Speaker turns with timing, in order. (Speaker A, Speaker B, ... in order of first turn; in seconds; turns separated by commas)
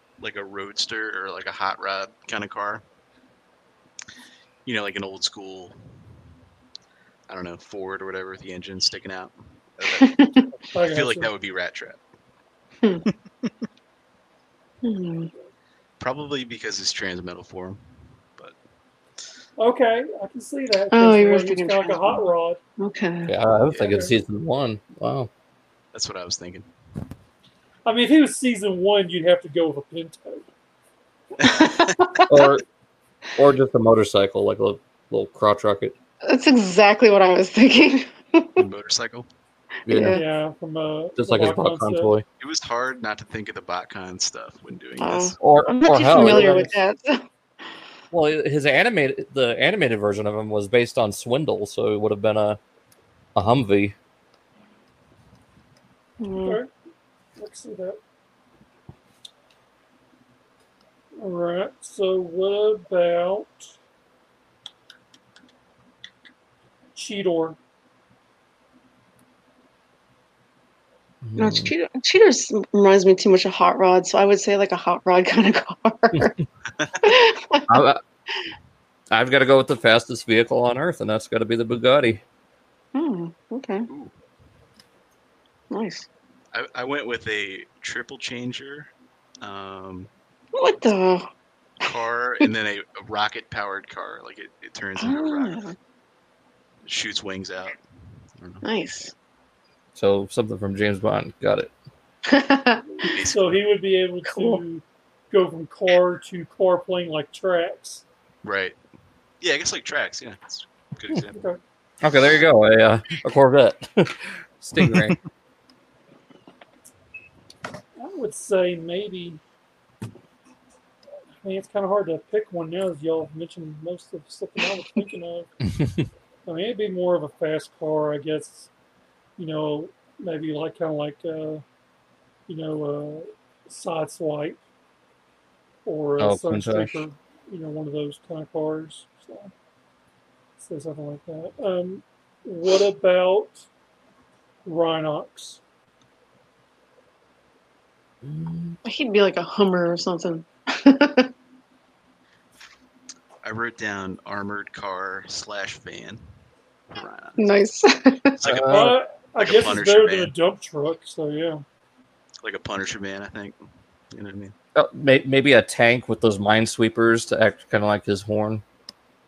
Speaker A: 0.2-2.8, Speaker A: 4.7-5.8, Speaker A: 7.3-10.2, Speaker B: 10.0-10.5, Speaker C: 10.7-11.3, Speaker A: 10.7-12.0, Speaker A: 13.1-13.5, Speaker B: 14.8-15.3, Speaker A: 16.0-17.8, Speaker C: 19.6-22.6, Speaker B: 20.9-22.3, Speaker B: 22.8-23.3, Speaker D: 23.3-25.3, Speaker C: 23.8-24.1, Speaker A: 25.9-26.7, Speaker C: 27.9-30.4, Speaker B: 31.4-32.5, Speaker D: 32.3-32.6, Speaker D: 33.4-36.0, Speaker B: 36.2-38.6, Speaker A: 38.6-39.3, Speaker D: 39.9-40.2, Speaker B: 39.9-40.2, Speaker C: 40.1-42.1, Speaker D: 41.2-42.2, Speaker A: 42.4-45.4, Speaker B: 45.0-47.2, Speaker D: 45.4-46.7, Speaker C: 46.2-46.7, Speaker D: 48.1-52.6, Speaker D: 53.4-54.0, Speaker B: 56.2-56.6, Speaker C: 56.4-56.7, Speaker C: 57.4-58.0, Speaker C: 61.2-63.7, Speaker C: 67.0-67.6, Speaker D: 71.2-71.7, Speaker B: 71.4-76.3, Speaker B: 77.0-77.7, Speaker D: 77.7-78.0, Speaker D: 79.1-82.2, Speaker B: 82.9-83.9, Speaker B: 85.7-86.1, Speaker A: 86.5-88.9, Speaker A: 89.4-90.1, Speaker B: 90.5-91.3, Speaker A: 91.8-95.6, Speaker B: 95.0-95.8, Speaker A: 96.8-97.8, Speaker A: 98.4-98.6, Speaker B: 98.6-99.1, Speaker D: 100.0-101.7, Speaker B: 102.3-103.2, Speaker A: 103.1-103.6, Speaker C: 103.3-108.0, Speaker B: 104.3-104.6, Speaker A: 108.4-108.8, Speaker A: 109.4-111.4, Speaker C: 111.3-111.6, Speaker D: 112.0-115.2, Speaker A: 114.8-115.2, Speaker C: 118.0-119.4, Speaker C: 121.4-125.5, Speaker C: 126.5-128.7, Speaker C: 129.4-131.6, Speaker C: 132.5-134.6, Speaker C: 135.8-139.5, Speaker D: 136.2-137.0, Speaker C: 140.6-143.7, Speaker C: 144.7-145.6, Speaker D: 148.2-148.8, Speaker B: 148.8-151.3, Speaker A: 153.4-156.2, Speaker A: 156.9-157.4, Speaker B: 157.4-158.4, Speaker A: 158.4-160.3, Speaker D: 158.4-159.0, Speaker C: 158.7-161.6, Speaker A: 162.4-163.6, Speaker A: 164.1-164.5, Speaker D: 164.8-168.6